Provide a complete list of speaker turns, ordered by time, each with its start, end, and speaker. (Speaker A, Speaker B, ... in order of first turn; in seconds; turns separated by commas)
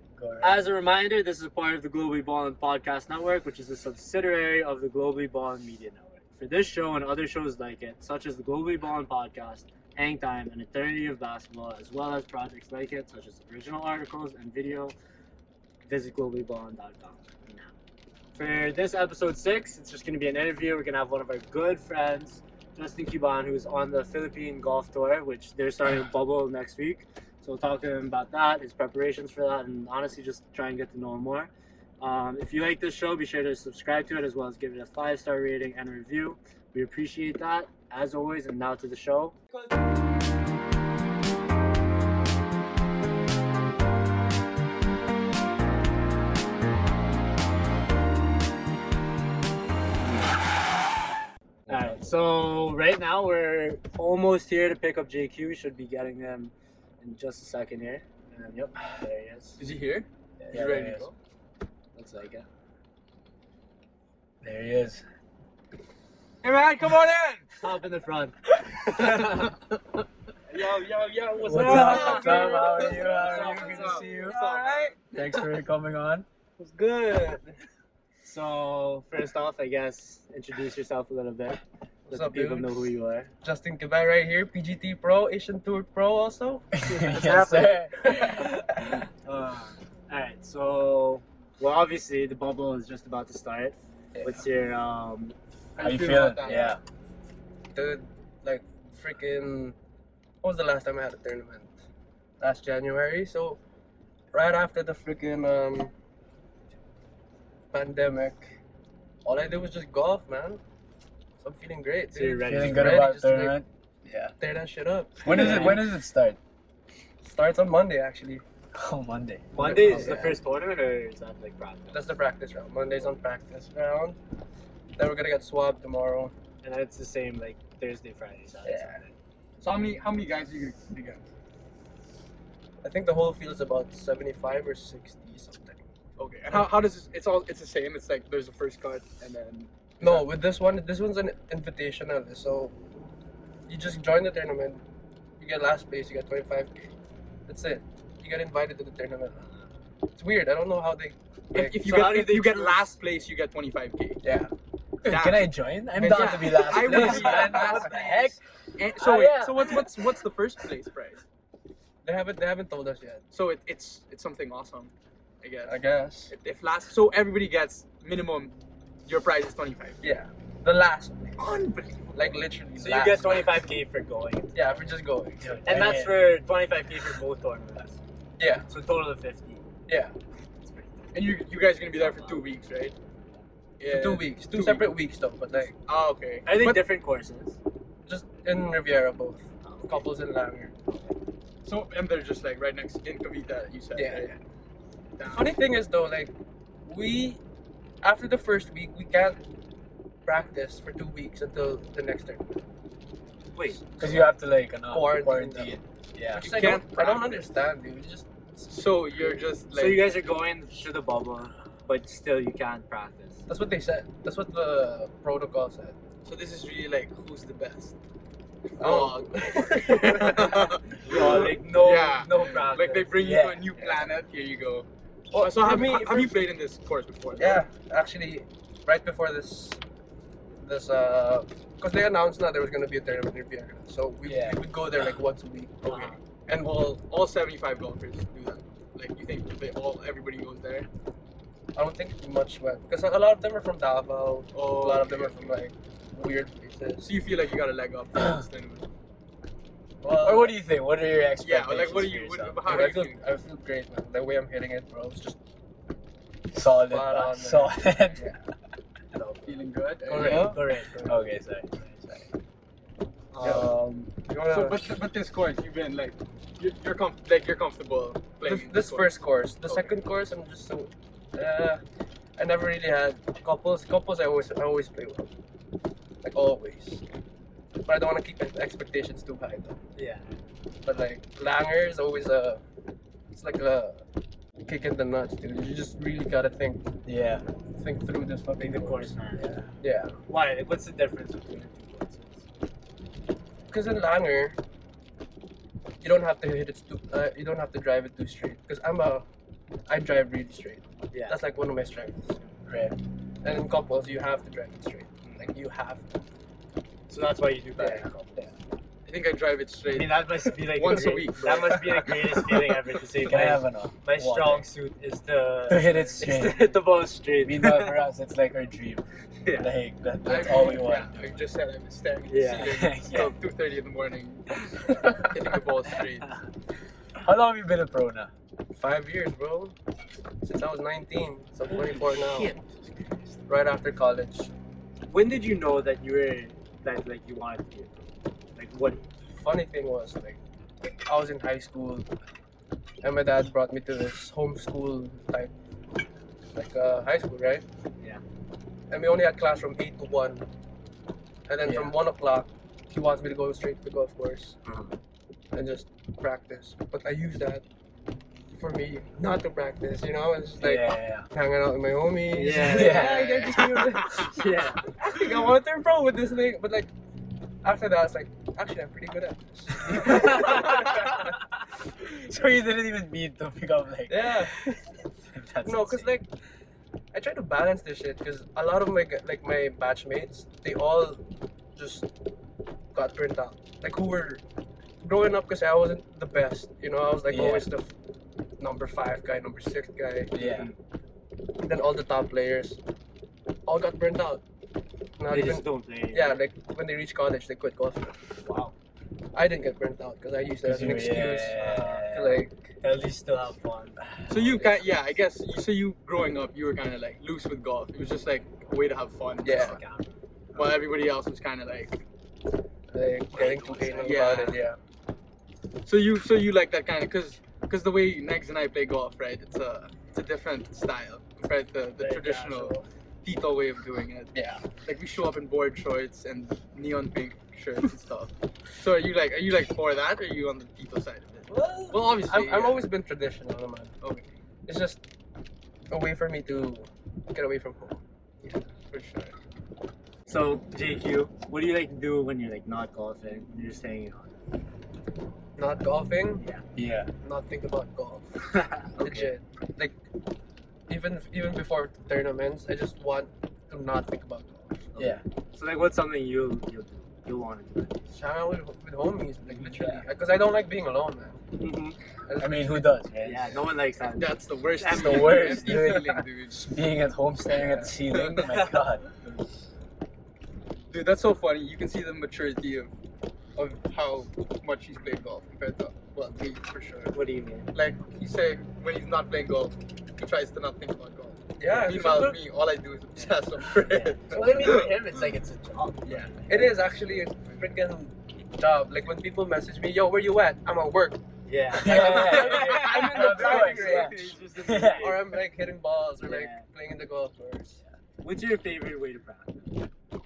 Speaker A: 0.2-0.7, Speaker B: 0.4-14.9, Speaker B: 15.8-17.7, Speaker B: 18.4-31.5, Speaker B: 32.0-39.4, Speaker B: 50.0-50.4, Speaker A: 51.7-52.1, Speaker B: 51.7-59.6, Speaker C: 59.6-61.1, Speaker B: 60.4-60.9, Speaker A: 60.5-61.1, Speaker B: 62.0-62.5, Speaker A: 64.4-65.0, Speaker C: 66.4-67.5, Speaker B: 67.6-69.6, Speaker D: 70.5-75.4, Speaker A: 71.4-74.4, Speaker B: 71.5-72.6, Speaker C: 71.5-75.0, Speaker A: 75.1-76.2, Speaker D: 76.6-77.6, Speaker B: 78.2-83.3, Speaker D: 82.1-82.9, Speaker D: 83.4-86.7, Speaker A: 86.7-89.0, Speaker B: 86.8-87.8, Speaker D: 88.0-88.5, Speaker B: 89.2-95.4, Speaker C: 95.8-96.8, Speaker A: 95.8-96.8, Speaker D: 97.7-99.8, Speaker D: 100.4-101.8, Speaker D: 102.4-103.6, Speaker D: 104.3-105.9, Speaker D: 107.7-108.5, Speaker D: 109.2-110.6, Speaker D: 111.4-113.6, Speaker B: 112.1-113.1, Speaker A: 112.5-114.3, Speaker D: 114.4-115.8, Speaker A: 115.2-116.4, Speaker B: 115.3-115.8, Speaker D: 117.2-118.4, Speaker A: 118.7-120.3, Speaker B: 119.5-122.1, Speaker D: 119.6-120.4, Speaker D: 121.9-124.2, Speaker D: 125.0-126.3, Speaker B: 126.6-129.1, Speaker D: 128.7-129.0, Speaker C: 129.6-131.2, Speaker D: 132.8-135.8, Speaker C: 136.2-140.3, Speaker D: 140.0-142.8, Speaker D: 143.7-144.8, Speaker D: 145.4-146.9, Speaker D: 147.5-149.5, Speaker D: 150.2-152.6, Speaker C: 151.5-154.2, Speaker B: 152.3-152.9, Speaker D: 154.2-154.5, Speaker A: 155.0-158.4, Speaker C: 155.1-158.1, Speaker D: 156.0-158.3, Speaker C: 158.8-161.2, Speaker A: 159.0-159.8, Speaker D: 162.0-163.2, Speaker C: 163.3-165.8, Speaker D: 165.7-166.3, Speaker C: 166.3-168.5, Speaker C: 169.1-170.0, Speaker D: 170.0-171.6, Speaker C: 171.4-172.5, Speaker D: 172.1-173.6, Speaker B: 172.8-174.6, Speaker D: 174.5-175.6, Speaker A: 175.4-176.3, Speaker B: 175.7-178.0, Speaker D: 178.4-178.7, Speaker B: 178.6-179.6, Speaker D: 179.9-180.2, Speaker B: 180.6-181.1, Speaker C: 181.1-182.9, Speaker B: 182.0-182.4, Speaker C: 183.8-184.9, Speaker D: 183.9-185.7, Speaker C: 185.6-186.9, Speaker B: 186.5-187.6, Speaker D: 188.1-191.1, Speaker B: 189.6-190.0, Speaker C: 191.7-194.4, Speaker D: 193.9-194.4, Speaker C: 195.2-195.5, Speaker D: 195.3-196.3, Speaker D: 196.8-197.4, Speaker D: 198.0-199.4, Speaker D: 200.2-202.6, Speaker B: 203.5-203.8, Speaker D: 203.8-204.3, Speaker A: 204.0-206.7, Speaker D: 204.9-205.7, Speaker C: 206.3-207.5, Speaker D: 206.3-209.4, Speaker C: 208.7-210.2, Speaker B: 209.7-213.4, Speaker D: 213.5-216.0, Speaker C: 216.2-217.9, Speaker C: 218.8-227.6, Speaker D: 218.8-221.5, Speaker B: 221.0-223.1, Speaker A: 223.2-224.0, Speaker D: 225.3-226.5, Speaker D: 227.3-229.8, Speaker D: 230.6-236.2, Speaker A: 234.2-234.6, Speaker B: 235.9-236.2, Speaker C: 236.5-240.9, Speaker D: 241.8-247.1, Speaker C: 244.5-245.6, Speaker C: 247.0-248.9, Speaker D: 250.0-250.6, Speaker A: 250.2-252.9, Speaker C: 251.4-253.2, Speaker D: 252.7-255.4, Speaker A: 256.5-258.4, Speaker D: 256.8-258.4, Speaker C: 259.4-260.5, Speaker D: 260.1-260.6, Speaker B: 260.1-261.3, Speaker A: 260.4-262.3, Speaker B: 263.3-264.1, Speaker D: 263.4-263.7, Speaker D: 264.3-264.9, Speaker C: 264.5-269.9, Speaker D: 268.4-271.8, Speaker D: 272.4-275.3, Speaker D: 276.2-277.0, Speaker D: 277.8-279.8, Speaker B: 280.0-280.2, Speaker D: 280.8-282.6, Speaker D: 283.3-284.0, Speaker D: 284.7-287.0, Speaker A: 287.1-287.4, Speaker D: 287.7-289.1, Speaker B: 288.6-289.6, Speaker A: 289.4-289.6, Speaker D: 289.8-290.2, Speaker B: 290.3-292.5, Speaker D: 293.7-294.6, Speaker D: 296.0-299.3, Speaker D: 299.9-302.4, Speaker B: 301.1-301.4, Speaker A: 302.7-303.0, Speaker D: 303.4-306.1, Speaker C: 305.2-305.5, Speaker B: 307.1-308.2, Speaker D: 307.8-308.5, Speaker C: 309.1-312.8, Speaker B: 309.9-318.0, Speaker A: 313.2-314.7, Speaker A: 315.7-319.0, Speaker B: 319.4-319.7, Speaker A: 319.6-321.4, Speaker C: 320.2-326.4, Speaker B: 322.3-322.8, Speaker A: 322.6-323.4, Speaker A: 327.2-328.3, Speaker D: 328.7-329.7, Speaker D: 330.4-332.6, Speaker A: 331.7-333.4, Speaker D: 333.5-334.5, Speaker B: 335.1-339.1, Speaker D: 339.3-340.4, Speaker D: 341.1-342.1, Speaker D: 343.0-345.5, Speaker D: 346.6-347.6, Speaker D: 348.9-350.5, Speaker D: 351.5-354.6, Speaker A: 351.6-351.9, Speaker B: 354.6-354.9, Speaker D: 355.5-357.6, Speaker D: 358.5-366.9, Speaker A: 360.6-361.3, Speaker B: 362.3-364.9, Speaker A: 362.6-364.0, Speaker C: 363.8-364.3, Speaker D: 367.6-371.4, Speaker A: 370.0-371.1, Speaker A: 372.0-376.1, Speaker D: 374.1-374.6, Speaker D: 375.6-376.3, Speaker D: 377.1-381.2, Speaker D: 381.8-382.1, Speaker D: 382.9-384.4, Speaker D: 385.0-387.9, Speaker A: 387.3-387.7, Speaker D: 388.6-390.6, Speaker A: 390.3-390.7, Speaker D: 391.6-392.8, Speaker D: 393.7-394.4, Speaker D: 395.2-398.2, Speaker B: 395.3-396.4, Speaker B: 398.4-398.7, Speaker D: 399.3-402.7, Speaker A: 400.6-402.4, Speaker B: 401.5-402.1, Speaker B: 402.8-404.8, Speaker A: 404.0-404.3, Speaker C: 404.3-409.8, Speaker D: 409.4-409.8, Speaker B: 409.5-410.1, Speaker C: 410.5-412.0, Speaker D: 412.9-414.8, Speaker C: 413.3-414.6, Speaker B: 413.9-414.5, Speaker C: 415.9-432.9, Speaker B: 422.0-422.9, Speaker D: 424.3-424.6, Speaker D: 431.5-433.9, Speaker C: 434.0-434.3, Speaker D: 434.7-435.0, Speaker D: 435.9-438.0, Speaker C: 438.4-439.3, Speaker B: 440.3-444.3, Speaker D: 445.6-446.5, Speaker A: 446.8-447.1, Speaker D: 447.2-450.0, Speaker B: 448.5-449.3, Speaker D: 450.9-454.9, Speaker B: 454.9-458.0, Speaker D: 458.1-461.4, Speaker A: 459.6-460.0, Speaker B: 461.6-462.0, Speaker D: 462.3-462.9, Speaker A: 462.4-463.6, Speaker B: 463.2-465.8, Speaker C: 464.2-466.6, Speaker A: 464.9-469.0, Speaker D: 467.5-467.9, Speaker C: 468.1-468.7, Speaker B: 468.5-468.8, Speaker C: 470.9-472.9, Speaker C: 473.6-477.2, Speaker B: 477.1-477.7, Speaker C: 477.7-485.0, Speaker D: 481.6-482.4, Speaker B: 483.9-486.9, Speaker D: 484.3-484.9, Speaker A: 484.3-485.4, Speaker A: 486.0-486.3, Speaker C: 486.1-486.3, Speaker D: 486.5-491.2, Speaker B: 491.4-495.3, Speaker A: 491.7-495.4, Speaker D: 491.9-494.3, Speaker C: 491.9-494.2, Speaker D: 494.9-497.8, Speaker B: 496.2-496.7, Speaker B: 498.2-499.9